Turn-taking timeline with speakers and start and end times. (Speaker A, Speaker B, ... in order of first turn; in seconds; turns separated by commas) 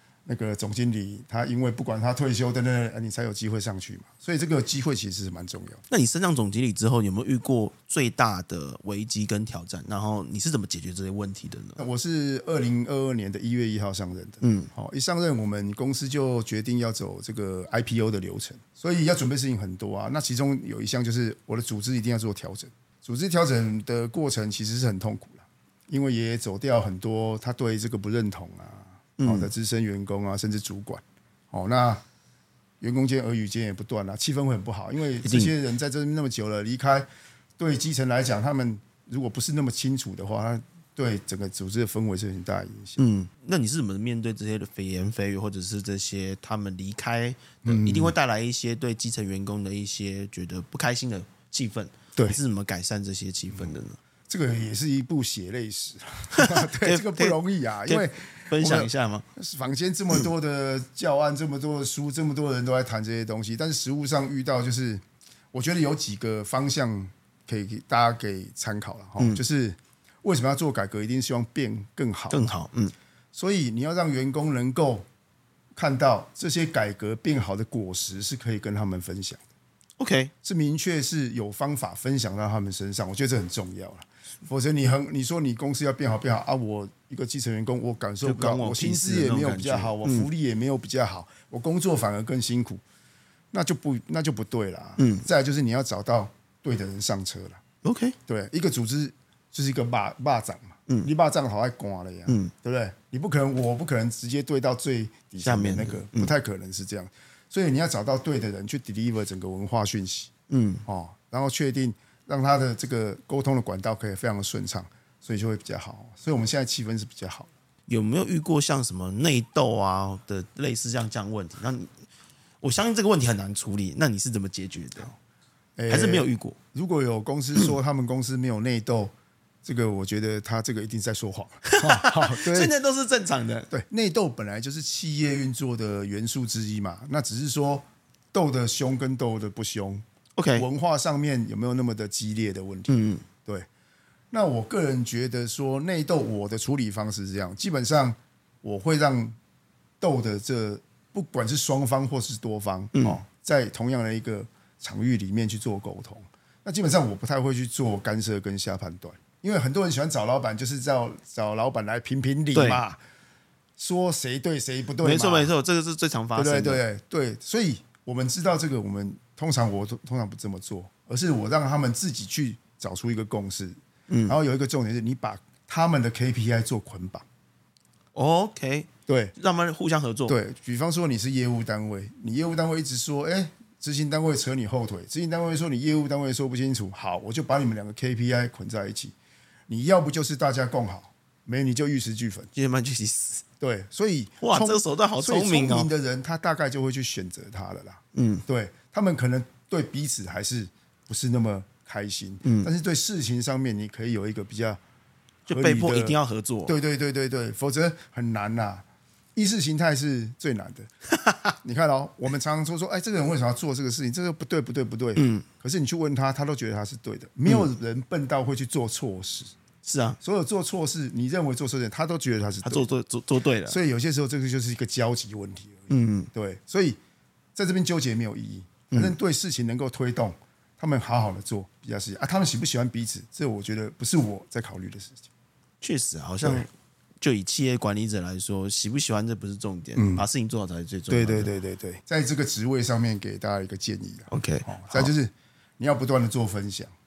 Speaker A: 0.2-5.8, Speaker B: 5.9-11.8, Speaker A: 11.8-32.0, Speaker B: 14.4-14.7, Speaker B: 29.2-29.5, Speaker A: 32.8-37.1, Speaker B: 35.2-35.5, Speaker A: 37.6-43.0, Speaker B: 43.0-54.0, Speaker A: 47.6-48.1, Speaker A: 54.3-72.5, Speaker B: 56.4-59.2, Speaker B: 72.3-72.9, Speaker A: 73.3-75.0, Speaker A: 75.8-79.4, Speaker B: 80.0-80.3, Speaker A: 80.4-92.8, Speaker B: 88.2-90.3, Speaker A: 93.5-97.6, Speaker B: 95.0-95.2, Speaker B: 97.8-98.2, Speaker A: 98.2-110.3, Speaker B: 102.3-102.5, Speaker B: 105.4-106.3, Speaker B: 110.5-110.8, Speaker A: 110.8-117.5, Speaker B: 117.9-121.9, Speaker B: 122.6-125.1, Speaker A: 125.8-129.1, Speaker B: 125.9-126.6, Speaker A: 129.6-132.7, Speaker B: 131.7-133.7, Speaker A: 133.7-140.0, Speaker B: 140.3-140.6, Speaker A: 140.5-143.7, Speaker B: 142.9-143.2, Speaker A: 144.3-149.3, Speaker A: 150.0-163.0, Speaker B: 162.5-162.8, Speaker A: 163.8-165.5, Speaker B: 165.0-166.8, Speaker A: 166.3-173.8, Speaker B: 174.1-174.3, Speaker A: 174.3-177.2, Speaker B: 178.1-180.3, Speaker A: 179.1-179.3, Speaker A: 180.3-189.1, Speaker A: 189.7-192.5, Speaker B: 192.5-193.4, Speaker A: 193.6-204.8, Speaker B: 194.4-195.9, Speaker B: 198.1-198.4, Speaker B: 202.4-202.7, Speaker B: 205.5-206.8, Speaker A: 205.5-208.8, Speaker A: 209.3-210.9, Speaker B: 211.1-211.5, Speaker A: 211.6-219.5, Speaker B: 215.2-215.4, Speaker B: 219.8-220.2, Speaker A: 220.2-222.9, Speaker B: 222.6-223.8, Speaker A: 223.7-227.0, Speaker B: 225.9-226.3, Speaker A: 227.6-235.2, Speaker B: 235.8-236.7, Speaker A: 236.4-236.7, Speaker B: 237.2-241.5, Speaker A: 239.9-240.2, Speaker A: 241.1-246.9, Speaker B: 244.3-245.1